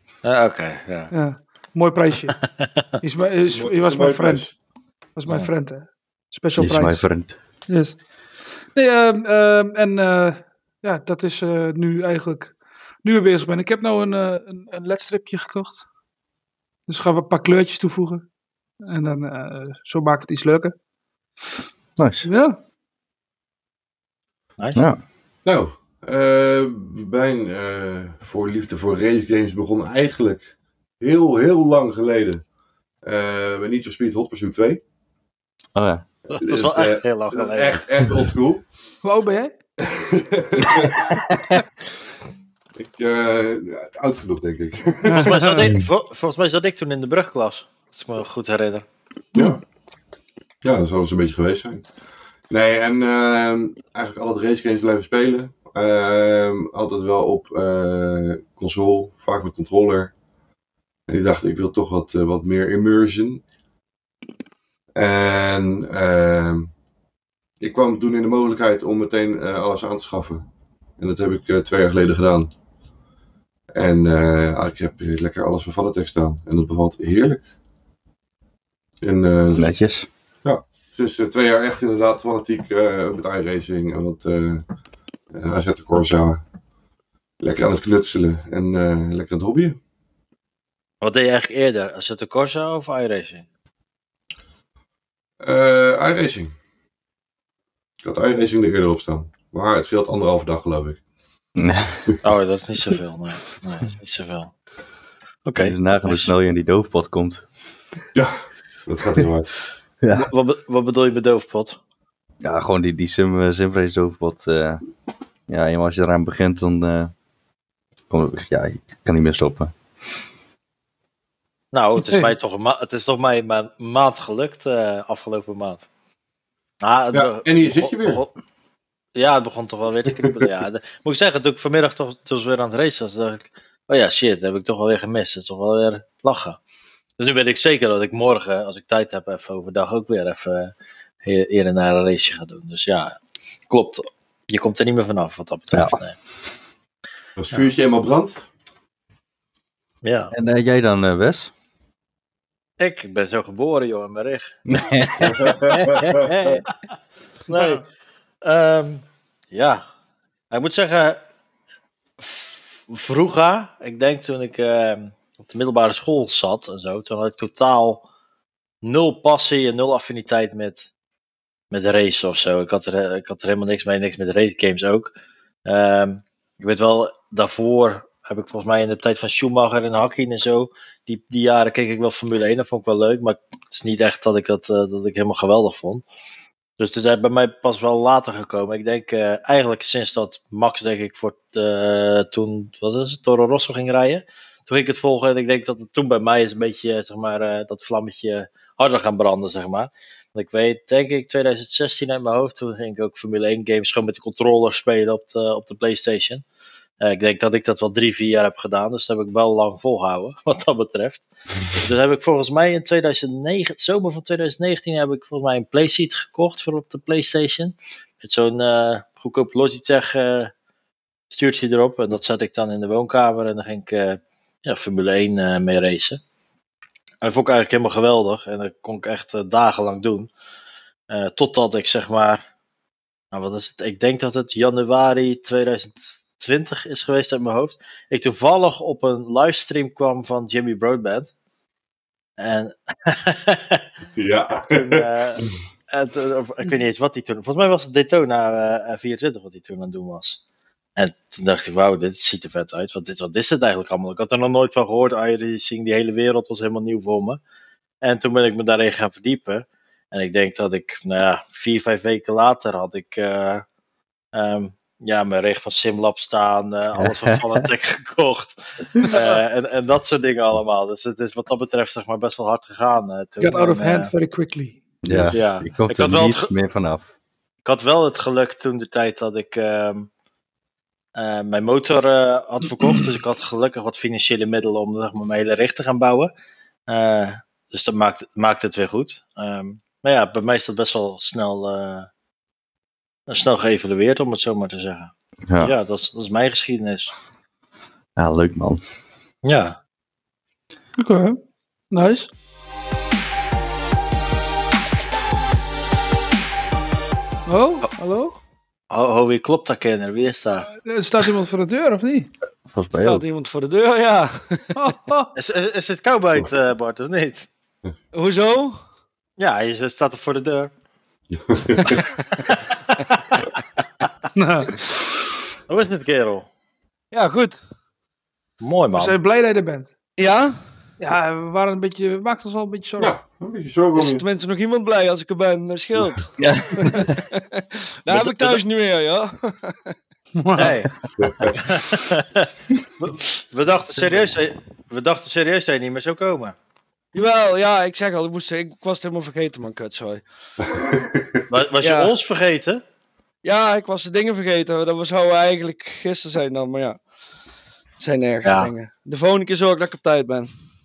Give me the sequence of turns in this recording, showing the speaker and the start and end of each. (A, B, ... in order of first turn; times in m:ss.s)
0:00.2-0:01.1 A
0:01.1-0:02.4 B
0:02.4-0:02.8 A
0:03.0-0:04.5 B
0:03.5-0:04.5 C
0:05.2-0:07.0 B
0:06.6-0:07.4 D
0:07.7-0:08.0 B
0:08.7-0:15.8 B
0:16.9-0:18.2 B
0:18.8-0:20.7 B
0:22.0-0:22.3 D
0:22.2-0:22.6 B
0:25.4-0:30.5 C
0:31.0-0:32.4 C
0:33.0-0:34.8 C
0:35.7-0:36.0 D
0:36.3-0:37.8 A
0:36.3-0:38.6 C
0:39.0-0:39.5 B
0:39.8-0:41.1 C
0:42.7-0:45.4 C
0:45.1-0:45.6 B
0:45.1-0:48.8 A
0:50.6-0:51.9 C
0:52.5-1:00.1 C
1:01.1-1:03.4 C
1:04.9-1:06.7 C
1:07.6-1:10.4 C
1:11.0-1:12.5 C
1:13.7-1:17.4 C
1:19.0-1:19.7 C
1:19.6-1:20.1 D
1:20.4-1:24.6 C
1:25.3-1:26.4 C
1:27.4-1:29.8 C
1:31.0-1:33.4 A
1:35.4-1:36.5 C
1:38.0-1:41.0 C
1:41.6-1:42.1 D
1:42.2-1:44.5 A
1:45.4-1:46.3 A
1:45.6-1:47.4 D
1:48.1-1:49.5 C
1:50.0-1:50.3 D
1:50.1-1:51.8 A
1:52.4-1:54.8 D
1:55.5-1:57.1 D
1:58.1-1:59.7 D
2:01.7-2:05.8 A
2:06.8-2:08.3 A
2:07.1-2:08.2 C
2:09.2-2:16.6 A
2:17.2-2:20.7 A
2:21.2-2:23.2 A
2:23.7-2:26.2 A
2:25.7-2:26.0 D
2:27.4-2:28.4 C
2:30.0-2:30.3 A
2:30.3-2:31.5 D
2:32.8-2:34.5 A
2:34.7-2:36.6 D
2:35.2-2:36.6 C
2:37.5-2:37.8 A
2:38.4-2:39.8 A
2:40.5-2:41.2 A
2:42.2-2:48.0 A
2:48.8-2:50.9 A
2:51.7-2:55.1 A
2:55.6-3:06.0 A
3:06.8-3:26.4 A
3:27.0-3:40.5 A
3:41.3-3:46.2 A
3:47.2-3:50.3 A
3:51.1-3:52.4 A
3:53.3-4:01.3 A
4:02.4-4:03.8 A
4:04.2-4:05.5 C
4:04.7-4:10.4 A
4:11.0-4:17.4 A
4:18.0-4:23.6 A
4:24.3-4:34.1 A
4:27.0-4:27.4 D
4:29.0-4:29.4 B
4:33.4-4:34.8 B
4:35.0-4:37.1 D
4:35.1-4:35.4 C
4:35.3-4:36.5 A
4:37.6-4:40.1 A
4:41.2-4:46.3 A
4:46.9-4:52.1 A
4:53.3-4:57.1 A
4:58.2-4:58.8 D
4:59.4-4:59.8 A
5:01.0-5:01.4 B
5:01.9-5:02.3 B
5:07.4-5:08.4 B
5:08.9-5:10.7 A
5:10.7-5:12.3 B
5:12.7-5:13.2 D
5:12.9-5:14.7 E
5:14.7-5:15.3 B
5:15.3-5:17.5 A
5:18.1-5:18.8 E
5:19.4-5:20.7 A
5:21.3-5:22.0 C
5:22.5-5:23.4 A
5:24.3-5:24.8 B
5:25.7-5:26.4 A
5:27.1-5:27.6 E
5:28.6-5:29.2 A
5:29.0-5:29.9 B
5:30.2-5:30.6 E
5:31.0-5:33.1 B
5:33.0-5:34.2 C
5:33.9-5:39.9 E
5:36.4-5:37.1 D
5:38.1-5:38.6 A
5:40.4-5:40.8 B
5:40.5-5:40.9 A
5:41.2-5:41.6 C
5:41.5-5:42.5 A
5:43.0-5:46.5 A
5:44.0-5:44.2 E
5:47.1-5:50.2 E
5:50.6-5:51.4 C
5:51.5-5:52.8 A
5:51.8-5:52.1 E
5:53.4-5:57.0 E
5:58.0-6:00.5 E
5:58.4-5:58.7 A